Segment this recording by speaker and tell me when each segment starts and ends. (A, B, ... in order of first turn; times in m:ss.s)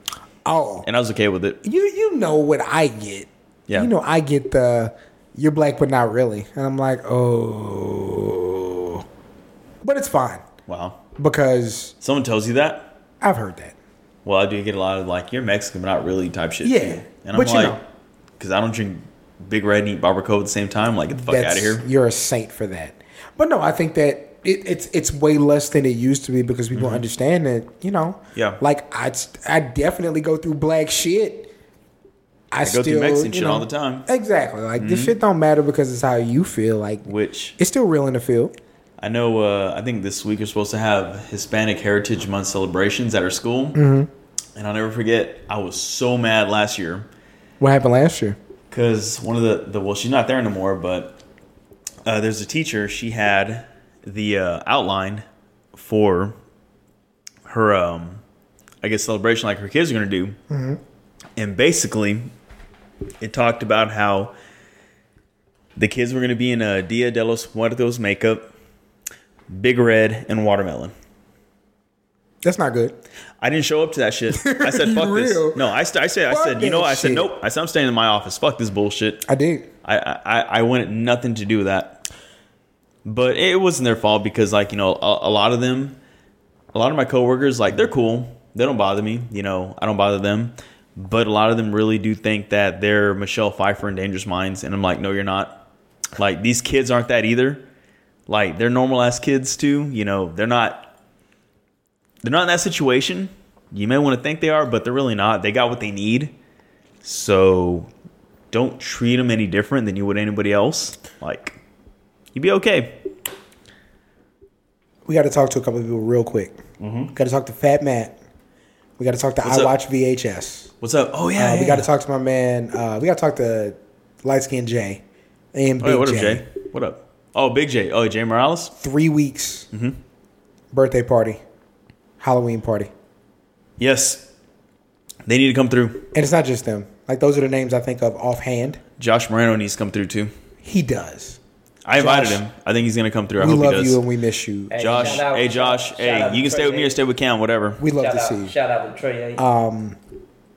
0:00.4-0:00.9 A
0:00.8-0:01.6 B
0:01.6-0:09.0 A
0:09.8-0:10.4 A
0:10.7-0:11.0 B
0:11.2-0:11.9 A
0:12.0-0:12.9 B
0:13.2-0:13.7 A
0:14.2-0:17.8 B
0:16.6-0:17.8 A
0:18.4-0:21.8 B
0:21.2-0:31.5 A
0:26.7-0:27.0 B
0:28.3-0:28.6 B
0:32.5-0:38.5 A
0:32.6-0:34.0 B
0:34.8-0:35.1 B
0:37.0-0:37.6 B
0:39.0-0:43.8 B
0:43.7-0:44.1 A
0:44.6-0:47.1 B
0:47.6-0:48.4 A
0:48.7-0:51.2 B
0:52.0-0:56.4 B
0:57.4-0:58.2 B
0:58.8-1:00.4 B
1:00.5-1:00.8 A
1:01.4-1:02.3 B
1:03.2-1:04.3 B
1:05.8-1:08.5 B
1:09.5-1:10.9 B
1:12.4-1:13.0 A
1:13.4-1:19.2 B
1:14.3-1:15.7 A
1:16.3-1:17.3 A
1:19.3-1:19.7 A
1:19.8-1:22.0 B
1:23.0-1:26.0 B
1:26.7-1:35.5 B
1:36.2-1:37.6 B
1:38.3-1:40.9 B
1:42.2-1:46.3 B
1:47.0-1:47.9 B
1:48.5-1:51.6 B
1:52.3-1:53.0 B
1:55.0-1:56.6 A
1:56.8-1:57.1 B
1:57.1-1:58.1 A
1:59.0-2:00.7 A
1:59.4-1:59.7 B
2:00.8-2:01.9 B
2:01.4-2:05.0 A
2:05.5-2:06.4 A
2:05.8-2:08.7 B
2:08.8-2:09.7 A
2:09.7-2:10.0 B
2:10.7-2:11.4 A
2:12.2-2:12.9 A
2:13.8-2:14.3 B
2:15.2-2:16.1 B
2:16.1-2:18.8 A
2:19.0-2:20.3 B
2:20.6-2:21.4 A
2:21.8-2:24.0 B
2:21.9-2:22.4 A
2:23.4-2:25.2 A
2:24.7-2:27.0 C
2:24.8-2:27.8 B
2:27.8-2:28.5 A
2:27.9-2:29.4 C
2:29.4-2:30.0 A